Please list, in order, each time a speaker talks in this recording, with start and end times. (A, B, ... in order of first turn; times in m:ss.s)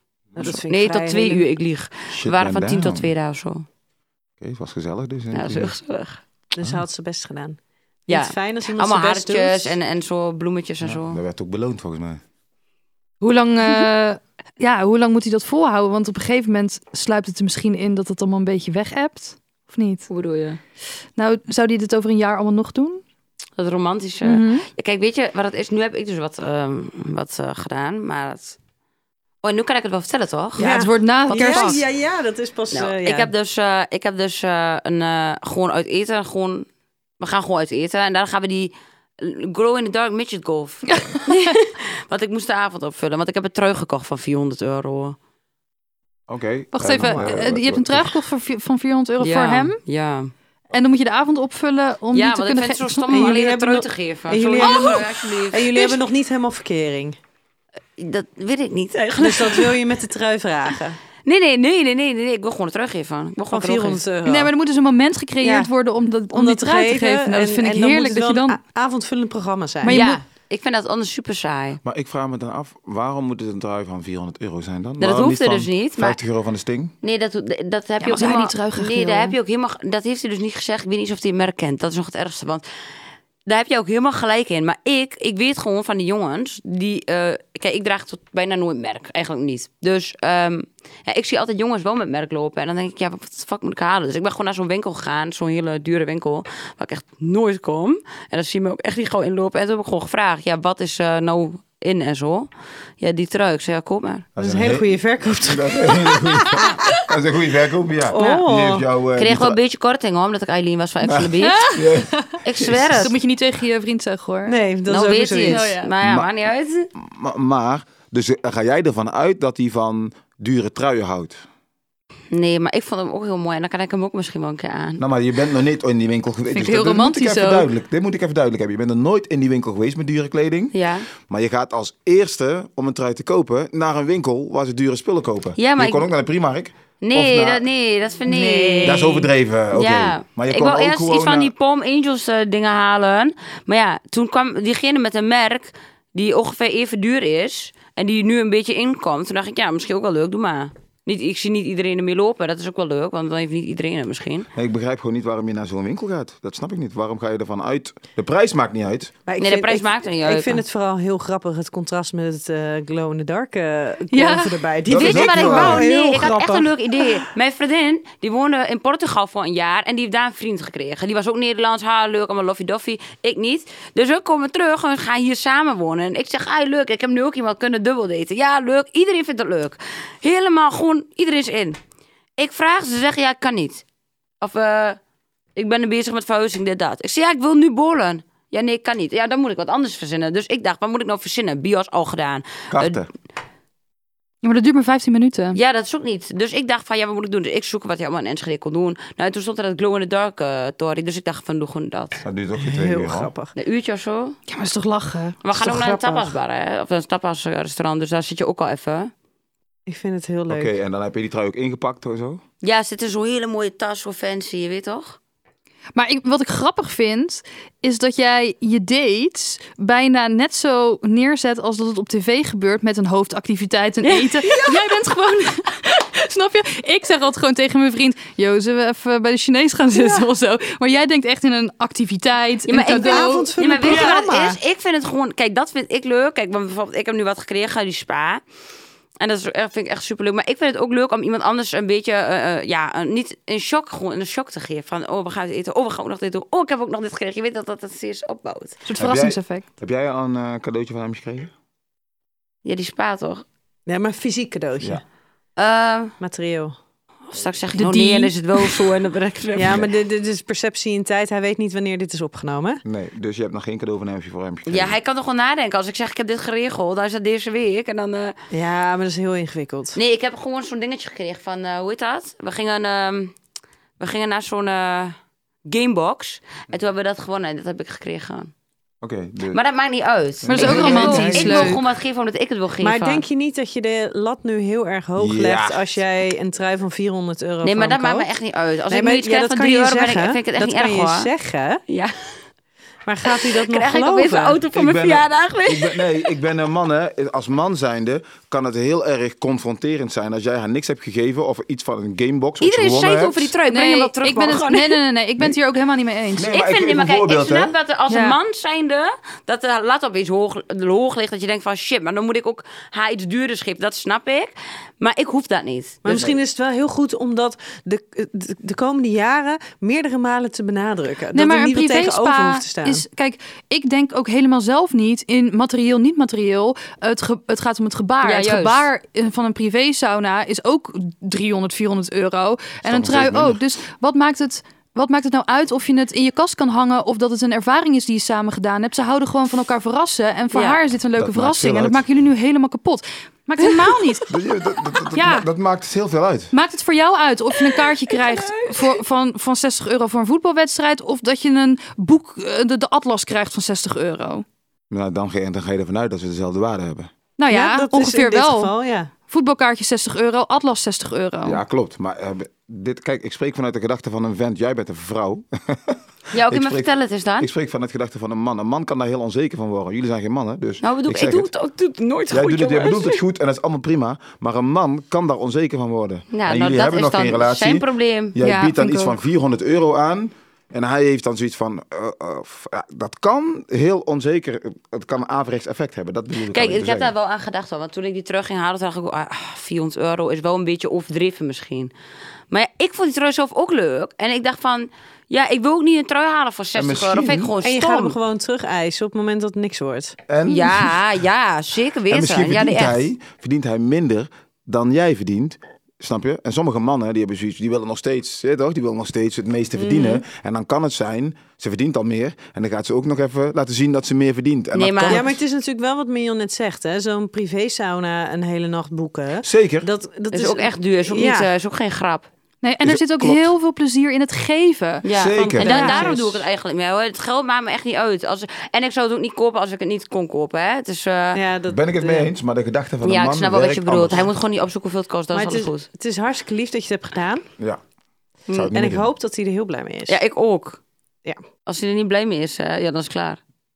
0:00.4-0:01.4 A
0:00.4-0:03.7 B
0:02.1-0:03.1 C
0:04.4-0:05.7 C
0:05.3-0:06.2 B
0:06.5-0:09.8 A
0:08.1-0:11.2 B
0:10.8-0:12.2 C
0:13.2-0:20.1 D
0:20.1-0:20.6 B
0:21.2-0:23.0 D
0:23.6-0:28.6 B
0:24.2-0:24.7 D
0:29.4-0:30.7 B
0:30.6-0:31.8 D
0:30.6-0:33.3 A
0:32.7-0:36.7 B
0:37.2-0:45.2 B
0:40.9-0:41.5 D
0:46.3-0:48.2 C
0:46.7-0:49.8 D
0:47.0-0:47.4 A
0:49.2-0:50.3 B
0:50.7-0:53.3 D
0:52.1-0:56.0 B
0:53.1-0:57.2 A
0:54.6-0:55.0 D
0:58.0-0:59.8 B
0:59.2-1:01.0 A
1:01.2-1:04.0 B
1:03.5-1:04.5 A
1:04.2-1:08.6 D
1:05.4-1:05.7 A
1:06.3-1:10.0 A
1:09.8-1:10.2 D
1:09.9-1:11.8 B
1:11.8-1:16.9 C
1:15.0-1:16.2 B
1:17.0-1:22.6 B
1:18.0-1:19.4 D
1:23.5-1:42.5 B
1:43.0-1:44.3 B
1:44.4-1:49.6 C
1:44.4-1:46.7 A
1:48.1-1:48.9 A
1:49.2-1:51.6 B
1:51.0-1:53.1 C
1:51.4-1:52.4 D
1:52.4-1:53.1 B
1:53.0-1:54.6 D
1:54.4-1:55.8 A
1:54.9-1:56.9 B
1:55.4-1:55.9 D
1:56.0-1:56.3 C
1:57.0-2:01.4 C
2:02.3-2:05.0 B
2:05.0-2:17.7 C
2:06.5-2:07.7 D
2:10.7-2:11.1 B
2:15.6-2:16.1 B
2:17.0-2:34.5 B
2:18.2-2:19.2 A
2:18.8-2:21.5 C
2:34.6-2:39.1 C
2:39.3-2:47.1 A
2:39.4-2:40.6 B
2:44.1-2:44.6 D
2:44.8-2:45.9 C
2:44.9-3:01.8 B
3:02.4-3:03.8 B
3:04.4-3:05.0 B
3:05.6-3:13.0 B
3:12.7-3:13.1 C
3:14.4-3:15.6 D
3:15.6-3:22.2 B
3:22.2-3:23.3 C
3:22.6-3:23.5 A
3:23.6-3:24.4 B
3:24.5-3:25.4 D
3:25.4-3:29.1 B
3:25.6-3:26.3 A
3:29.9-3:30.7 A
3:30.5-3:32.4 C
3:32.6-3:35.2 B
3:36.0-3:54.2 D
3:44.0-3:44.7 B
3:50.0-3:50.2 A
3:52.7-3:58.4 B
3:52.9-3:54.6 A
3:59.2-4:08.8 B
4:08.8-4:09.6 D
4:09.0-4:11.5 C
4:12.6-4:13.4 B
4:13.9-4:15.0 A
4:15.6-4:16.1 B
4:16.2-4:16.8 A
4:17.3-4:19.8 B
4:17.8-4:18.9 D
4:19.6-4:22.8 A
4:22.8-4:25.0 C
4:24.7-4:28.4 B
4:28.5-4:30.0 A
4:30.0-4:33.4 B
4:34.0-4:35.2 B
4:35.7-4:38.5 B
4:39.0-4:39.6 C
4:39.5-4:43.2 B
4:40.4-4:41.8 C
4:40.5-4:41.8 D
4:40.9-4:41.6 A
4:42.8-4:48.3 A
4:45.2-4:46.0 C
4:47.6-4:51.3 B
4:48.9-4:51.8 A
4:53.1-4:54.6 A
4:53.7-4:56.3 B
4:54.7-5:03.5 C
5:02.6-5:05.0 B
5:03.7-5:06.5 D
5:06.4-5:07.7 C
5:06.5-5:16.2 B
5:08.1-5:08.4 D
5:16.0-5:23.0 A
5:16.1-5:16.4 C
5:21.3-5:44.3 D
5:28.2-5:28.9 B
5:32.8-5:33.6 C
5:40.5-5:40.8 B
5:41.2-5:42.0 C
5:44.3-5:46.5 C
5:45.1-5:45.4 D
5:46.5-5:54.4 D
5:48.1-5:48.7 B
5:54.9-5:57.1 C
5:57.4-5:58.7 D
5:57.5-5:59.1 A
5:59.3-6:01.6 D
6:01.4-6:11.5 C
6:06.3-6:07.5 B
6:10.8-6:13.2 B
6:12.3-6:27.1 C
6:16.3-6:18.5 B
6:18.4-6:19.1 D
6:26.5-6:31.9 B
6:32.5-6:38.2 B
6:36.8-6:37.5 C
6:37.6-6:40.2 A
6:40.3-6:41.0 C
6:40.5-6:43.1 B
6:42.1-6:55.4 C
6:49.8-6:50.2 A
6:54.8-6:55.2 B
6:55.1-7:01.5 A
6:59.4-6:59.9 C
7:00.3-7:02.3 B
7:02.6-7:06.1 D
7:02.8-7:03.5 C
7:05.0-7:11.4 B
7:05.1-7:06.1 C
7:11.4-7:12.3 A
7:11.7-7:14.3 C
7:13.0-7:15.9 B
7:15.3-7:17.5 A
7:18.5-7:19.1 C
7:18.7-7:20.2 A
7:20.1-7:20.8 B
7:21.7-7:23.4 B